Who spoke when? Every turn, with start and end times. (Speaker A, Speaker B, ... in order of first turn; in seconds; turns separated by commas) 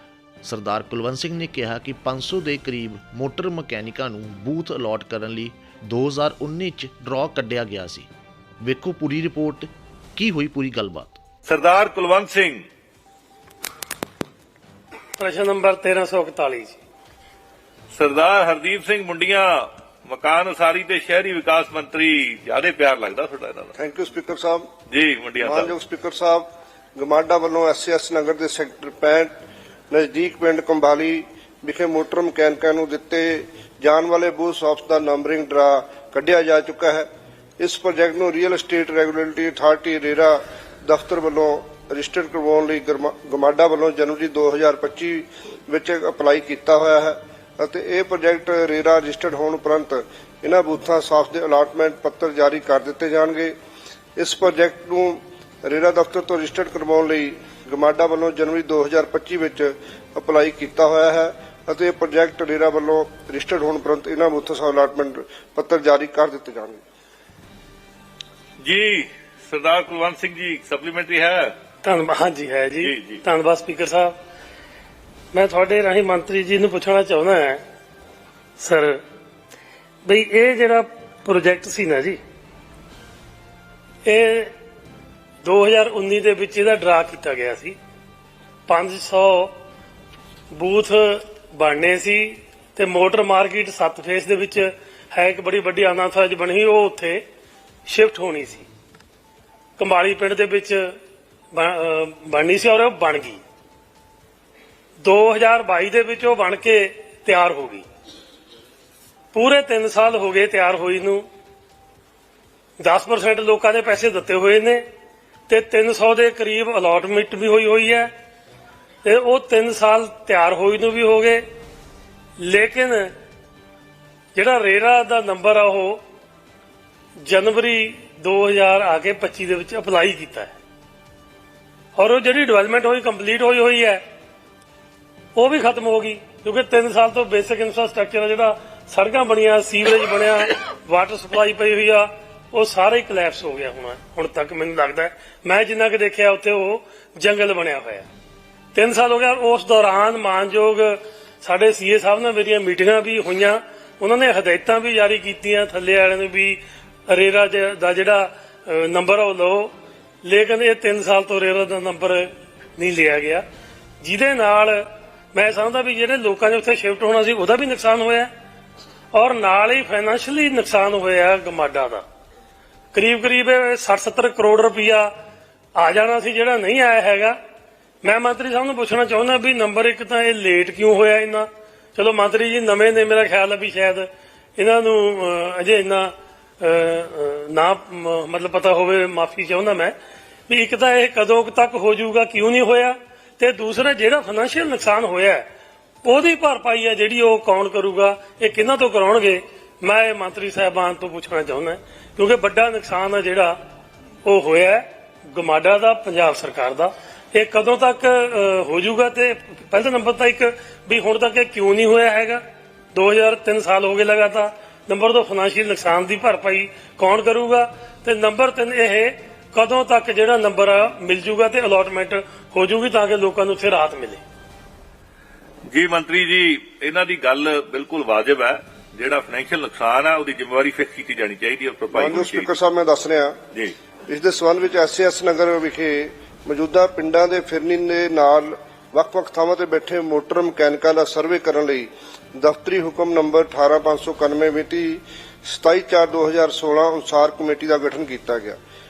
Speaker A: 0.4-8.1, Speaker A: 8.6-11.2, Speaker B: 11.5-12.6, Speaker C: 15.2-16.8, Speaker B: 17.9-23.7, Speaker D: 23.8-24.7, Speaker B: 24.9-25.7, Speaker D: 25.4-29.3, Speaker D: 29.9-37.1, Speaker D: 37.6-53.5, Speaker D: 54.2-66.8, Speaker B: 68.6-71.5, Speaker C: 71.8-74.2, Speaker B: 72.8-73.2, Speaker C: 75.3-77.6, Speaker C: 78.6-79.0, Speaker C: 80.0-82.2, Speaker C: 84.0-84.5, Speaker C: 85.4-87.8, Speaker C: 88.7-89.6, Speaker C: 90.5-97.2, Speaker C: 97.9-98.7, Speaker C: 99.8-100.9, Speaker C: 101.5-103.4, Speaker C: 105.0-107.8, Speaker C: 109.3-111.3, Speaker C: 112.8-114.8, Speaker C: 115.5-118.1, Speaker C: 119.0-121.5, Speaker C: 122.4-123.1, Speaker C: 124.3-126.0, Speaker C: 127.2-130.6, Speaker C: 131.9-134.0, Speaker C: 135.3-148.1, Speaker C: 148.7-163.4, Speaker C: 164.0-168.3, Speaker C: 169.1-172.1, Speaker C: 172.9-175.1, Speaker C: 175.8-177.4, Speaker C: 178.0-190.0, Speaker C: 190.5-195.5, Speaker C: 196.0-203.6, Speaker C: 204.2-224.2, Speaker B: 225.7-232.6, Speaker D: 231.9-233.4, Speaker D: 234.1-248.6